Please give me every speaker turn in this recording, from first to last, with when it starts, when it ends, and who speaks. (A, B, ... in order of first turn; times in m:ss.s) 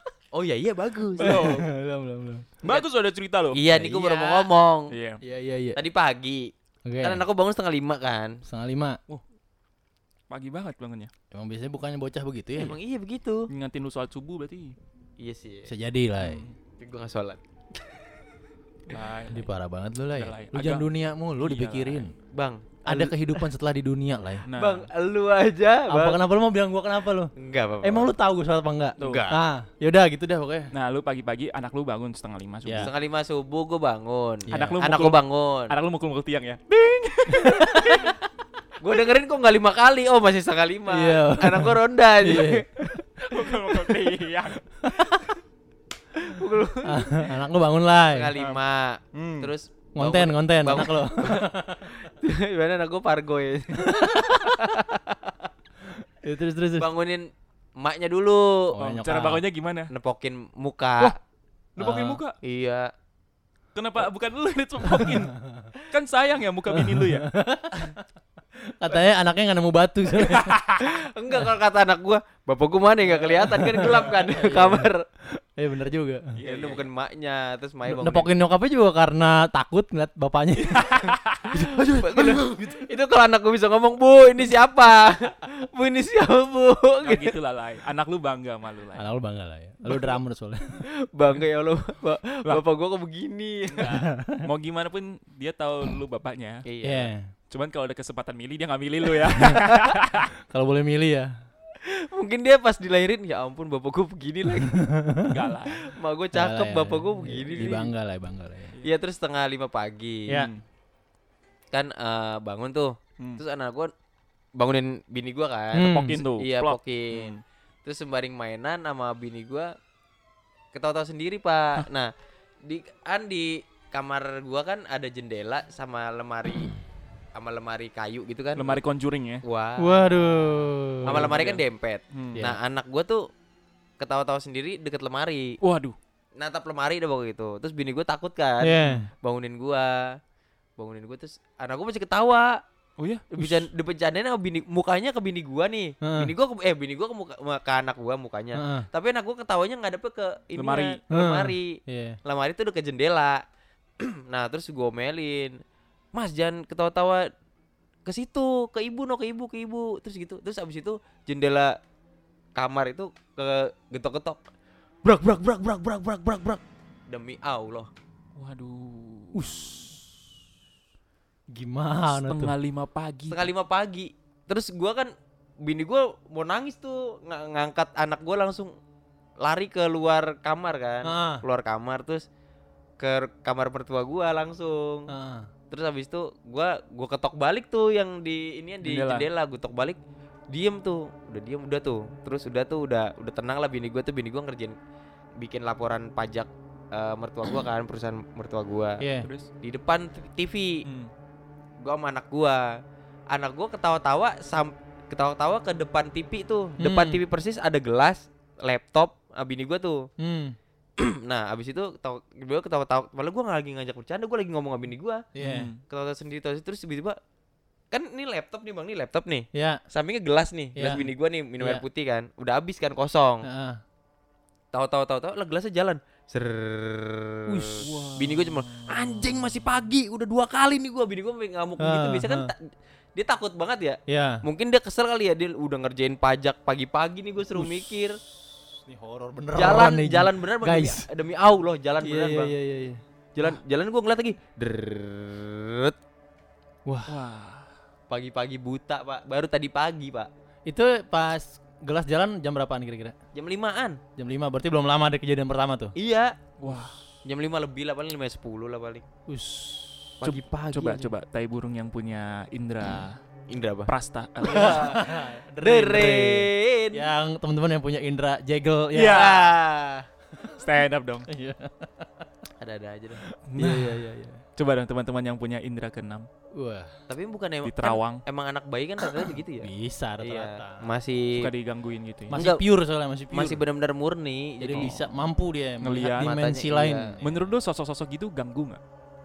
0:00.3-0:01.6 A
0:01.2-0:01.6 B
0:01.2-0:02.5 C
0:02.6-0:03.6 B
0:03.5-0:04.9 A
0:03.7-0:04.5 C
0:04.9-0:05.2 B
0:05.2-0:05.8 C
0:05.7-0:08.4 A
0:06.8-0:07.2 C
0:08.4-0:09.0 C
0:10.3-0:11.1 B
0:11.3-0:12.8 C
0:12.6-0:13.5 A
0:13.5-0:14.8 B
0:15.2-0:15.7 A
0:15.6-0:16.4 C
0:16.2-0:16.6 B
0:16.8-0:17.4 A
0:18.9-0:19.5 B
0:19.3-0:22.1 C
0:20.1-0:22.0 B
0:22.3-0:23.5 A
0:22.8-0:24.4 C
0:24.4-0:24.9 B
0:24.5-0:26.2 A
0:25.9-0:30.7 C
0:27.4-0:28.1 A
0:29.0-0:29.4 A
0:30.7-0:32.9 B
0:32.8-0:35.8 A
0:34.5-0:34.8 C
0:34.5-0:38.2 B
0:37.6-0:38.1 A
0:38.8-0:42.9 A
0:40.9-0:42.6 C
0:43.2-0:45.3 B
0:46.2-0:47.4 A
0:46.8-0:48.3 C
0:48.1-0:55.5 A
0:49.1-0:49.5 B
0:49.9-0:51.9 C
0:53.8-0:54.6 C
0:56.0-0:56.9 C
0:56.8-0:58.7 A
0:58.7-0:59.4 C
0:58.8-0:59.9 B
0:59.9-1:01.1 A
1:01.8-1:02.4 B
1:01.8-1:02.2 C
1:02.4-1:02.9 A
1:03.7-1:07.3 B
1:05.0-1:05.7 C
1:06.7-1:08.0 C
1:08.8-1:10.6 C
1:10.3-1:10.9 B
1:10.8-1:15.0 A
1:13.0-1:16.3 C
1:16.3-1:16.9 B
1:16.4-1:18.3 A
1:17.8-1:22.8 C
1:20.8-1:21.4 B
1:21.5-1:27.3 A
1:27.0-1:29.0 B
1:29.0-1:30.8 C
1:31.1-1:34.0 A
1:33.7-1:36.7 B
1:33.8-1:34.4 C
1:36.6-1:37.1 A
1:36.8-1:37.3 C
1:37.5-1:40.3 B
1:40.5-1:41.3 C
1:41.8-1:44.8 A
1:44.8-1:45.3 C
1:45.3-1:45.9 B
1:45.7-1:47.9 A
1:46.3-1:48.8 C
1:47.5-1:47.8 B
1:48.8-1:50.4 A
1:50.3-1:50.6 B
1:51.7-1:53.9 A
1:54.6-1:59.7 A
1:55.7-1:56.2 C
1:55.8-1:57.4 B
2:00.7-2:02.1 A
2:02.6-2:06.7 A
2:07.4-2:08.8 A
2:08.6-2:09.4 B
2:09.4-2:09.9 A
2:09.8-2:11.3 C
2:11.0-2:13.2 A
2:11.1-2:11.6 B
2:12.1-2:12.4 B
2:14.0-2:15.6 A
2:15.6-2:16.0 B
2:16.4-2:20.2 A
2:18.6-2:19.1 C
2:20.8-2:22.6 A
2:23.0-2:23.2 B
2:23.3-2:33.4 A
2:23.4-2:23.6 C
2:26.0-2:26.3 C
2:28.5-2:28.9 C
2:30.6-2:31.0 B
2:31.1-2:32.2 C
2:34.0-2:35.6 A
2:36.1-2:37.2 A
2:38.0-2:41.7 A
2:42.6-2:44.4 A
2:45.0-2:47.9 A
2:48.4-2:49.7 B
2:49.3-2:50.1 C
2:51.5-2:52.5 C
2:52.1-2:53.5 B
2:53.3-2:55.1 A
2:55.6-2:58.7 A
2:59.4-3:02.2 A
3:01.0-3:01.4 C
3:03.0-3:05.1 A
3:05.1-3:05.5 C
3:05.7-3:10.0 A
3:08.8-3:09.3 B
3:10.5-3:14.8 A
3:15.4-3:19.0 A
3:19.0-3:19.3 C
3:19.2-3:19.5 B
3:19.6-3:20.8 A
3:20.8-3:21.1 B
3:21.8-3:22.6 A
3:23.3-3:30.0 A
3:26.8-3:27.2 C
3:30.2-3:30.6 C
3:31.0-3:35.2 A
3:35.4-3:35.7 C
3:35.4-3:35.8 B
3:35.9-3:37.2 A
3:37.9-3:43.4 A
3:39.5-3:39.8 C
3:40.8-3:41.0 C
3:43.4-3:43.8 C
3:44.7-3:58.2 A
3:47.5-3:48.1 C
3:47.8-3:48.8 B
3:51.8-3:52.5 C
3:54.1-3:54.4 C
3:57.6-3:58.0 C
3:58.8-4:01.0 C
3:59.5-4:02.5 A
4:02.0-4:03.0 C
4:03.4-4:05.9 A
4:06.8-4:07.1 C
4:07.1-4:07.7 B
4:08.1-4:10.3 A
4:10.7-4:13.1 C
4:13.3-4:14.0 A
4:14.2-4:15.9 C
4:16.0-4:16.3 A
4:16.6-4:17.0 B
4:17.2-4:19.0 A
4:19.3-4:20.2 C
4:20.2-4:21.1 A
4:20.2-4:23.2 B
4:23.5-4:23.9 A
4:23.9-4:24.9 B
4:24.4-4:27.0 A
4:24.5-4:29.4 C
4:28.9-4:29.5 B
4:29.0-4:30.1 A
4:30.6-4:31.2 B
4:31.3-4:32.1 C
4:32.6-4:33.2 A
4:33.5-4:34.0 B
4:33.6-4:34.4 C
4:34.6-4:36.3 B
4:36.6-4:36.9 C
4:37.1-4:39.7 A
4:37.6-4:38.2 B
4:39.6-4:40.8 C
4:40.2-4:41.5 A
4:41.4-4:42.5 B
4:42.3-4:43.6 C
4:42.3-4:42.6 A
4:43.3-4:45.0 A
4:44.6-4:47.3 C
4:45.8-4:46.3 B
4:46.2-4:47.1 A
4:47.2-4:48.8 B